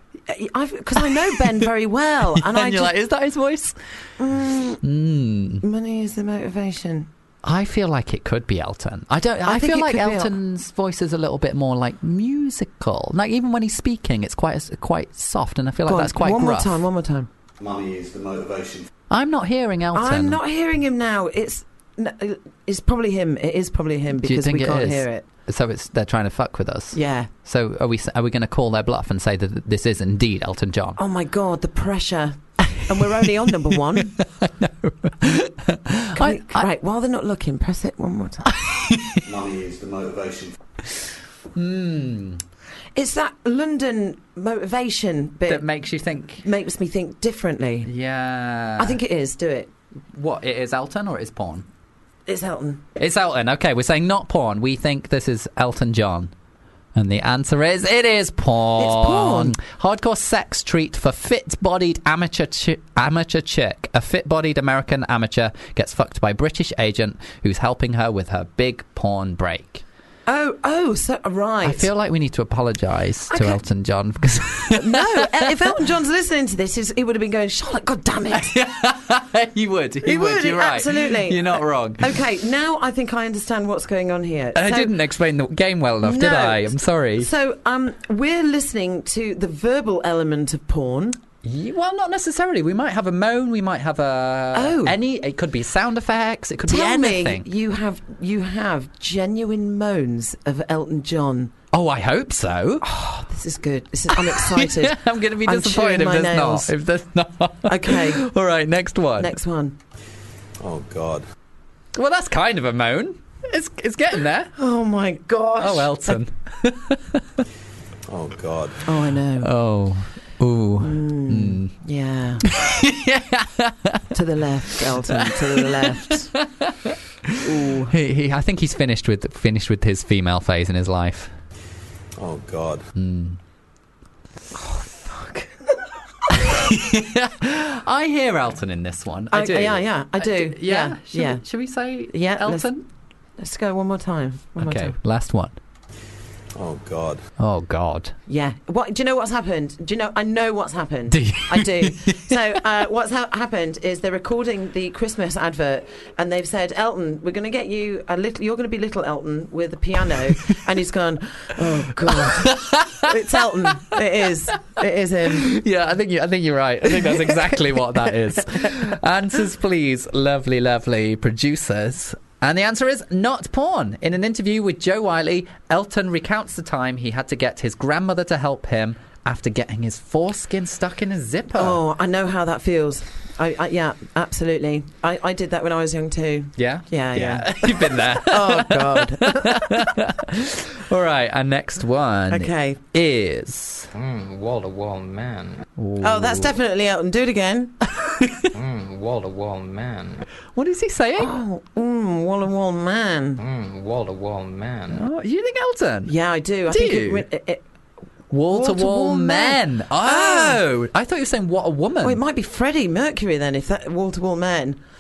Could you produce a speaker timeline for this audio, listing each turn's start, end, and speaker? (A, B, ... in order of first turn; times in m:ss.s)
0:00.3-0:02.9 A
0:01.0-0:01.6 B
0:02.3-0:03.8 B
0:04.2-0:04.8 A
0:04.8-0:05.6 B
0:05.6-0:07.1 A
0:07.4-0:16.8 B
0:09.4-0:10.3 A
0:15.9-0:17.3 A
0:17.6-0:18.9 C
0:19.1-0:20.4 B
0:19.9-0:25.2 A
0:24.2-0:31.0 B
0:26.9-0:27.3 A
0:31.0-0:34.2 A
0:33.0-0:36.7 B
0:36.1-0:38.5 A
0:38.5-0:39.3 B
0:39.2-0:40.6 C
0:41.5-0:42.4 B
0:43.0-0:45.6 A
0:45.5-0:46.4 B
0:46.4-0:47.9 A
0:47.8-0:49.0 B
0:48.8-0:49.7 A
0:50.1-0:51.7 B
0:52.3-0:52.8 A
0:53.0-0:56.3 B
0:57.0-1:09.8 B
0:58.8-0:59.6 A
1:10.3-1:11.9 A
1:11.6-1:15.8 B
1:13.3-1:13.6 A
1:14.7-1:18.5 A
1:18.3-1:22.2 B
1:20.0-1:24.9 A
1:24.6-1:27.3 B
1:26.0-1:31.2 A
1:31.4-1:37.5 B
1:34.5-1:35.0 A
1:36.7-1:41.5 A
1:41.7-1:42.9 B
1:42.8-1:46.7 A
1:44.1-1:49.4 B
1:47.7-1:48.2 A
1:49.2-1:49.8 A
1:50.6-1:51.2 C
1:52.0-1:54.5 B
1:54.6-1:56.2 A
1:55.6-1:57.4 B
1:58.1-1:58.8 C
1:58.8-1:59.5 A
1:59.4-2:01.7 B
2:00.8-2:02.5 A
2:02.4-2:04.1 B
2:04.1-2:06.3 A
2:04.7-2:11.4 B
2:07.4-2:07.9 A
2:12.2-2:12.9 C
2:13.0-2:13.4 B
2:14.5-2:15.8 A
2:16.3-2:22.8 B
2:19.3-2:21.4 A
2:22.1-2:22.7 A
2:23.4-2:25.0 A
2:24.6-2:25.6 B
2:26.6-2:27.2 C
2:27.4-2:28.2 B
2:28.3-2:45.6 A
2:31.1-2:32.4 B
2:42.0-2:43.4 B
2:45.3-3:01.8 B
3:01.6-3:09.9 A
3:06.6-3:13.9 B
3:12.3-3:12.8 A
3:13.9-3:15.6 D
3:15.8-3:16.6 B
3:16.0-3:17.8 A
3:18.2-3:18.5 B
3:18.5-3:20.2 D
3:20.6-3:21.4 B
3:21.2-3:23.4 A
3:23.4-3:25.1 D
3:24.9-3:26.2 B
3:26.1-3:27.6 A
3:26.7-3:27.3 B
3:28.3-3:32.2 B
3:28.5-3:30.6 A
3:32.0-3:34.8 A